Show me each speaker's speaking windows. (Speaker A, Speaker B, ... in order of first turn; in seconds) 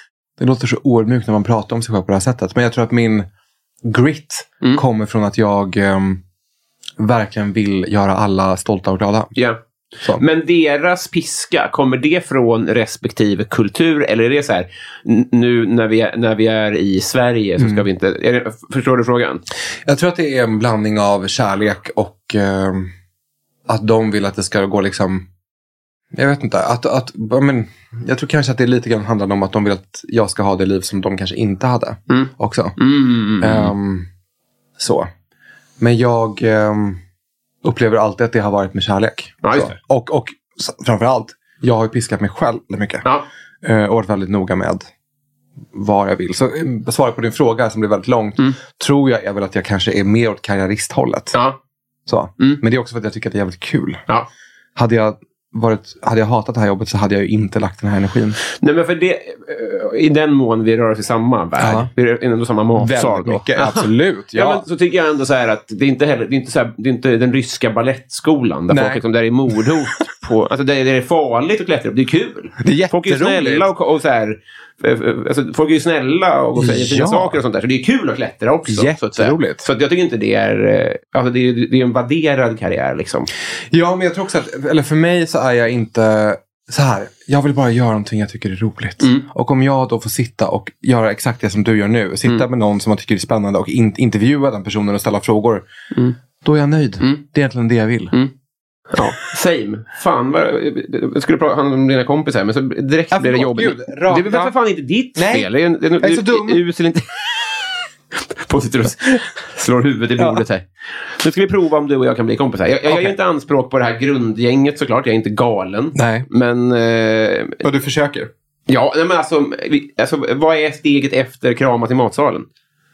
Speaker A: 0.4-3.3, 3.8-6.2, 7.0-9.3, 17.6-17.8, 19.8-22.9, 23.7-25.3, 26.1-32.8, 33.4-34.1, 34.8-35.1, 35.8-37.0, 37.6-43.1, 43.6-44.9, 45.7-51.4, 52.1-54.1, 54.8-58.4, 61.6-61.9, 62.8-64.6, 68.7-69.0, 72.6-73.7, 76.6-77.4, 78.7-79.6, 83.7-95.7, 96.4-98.1, 103.1-104.5, 105.2-105.5, 106.0-106.6, 110.2-110.4, 112.9-113.1, 115.9-116.3, 117.6-118.3
Speaker B: 10.2-19.4, 32.1-33.7, 39.4-39.7, 58.6-83.3, 89.0-89.2, 98.9-107.2, 108.1-117.6, 118.7-122.5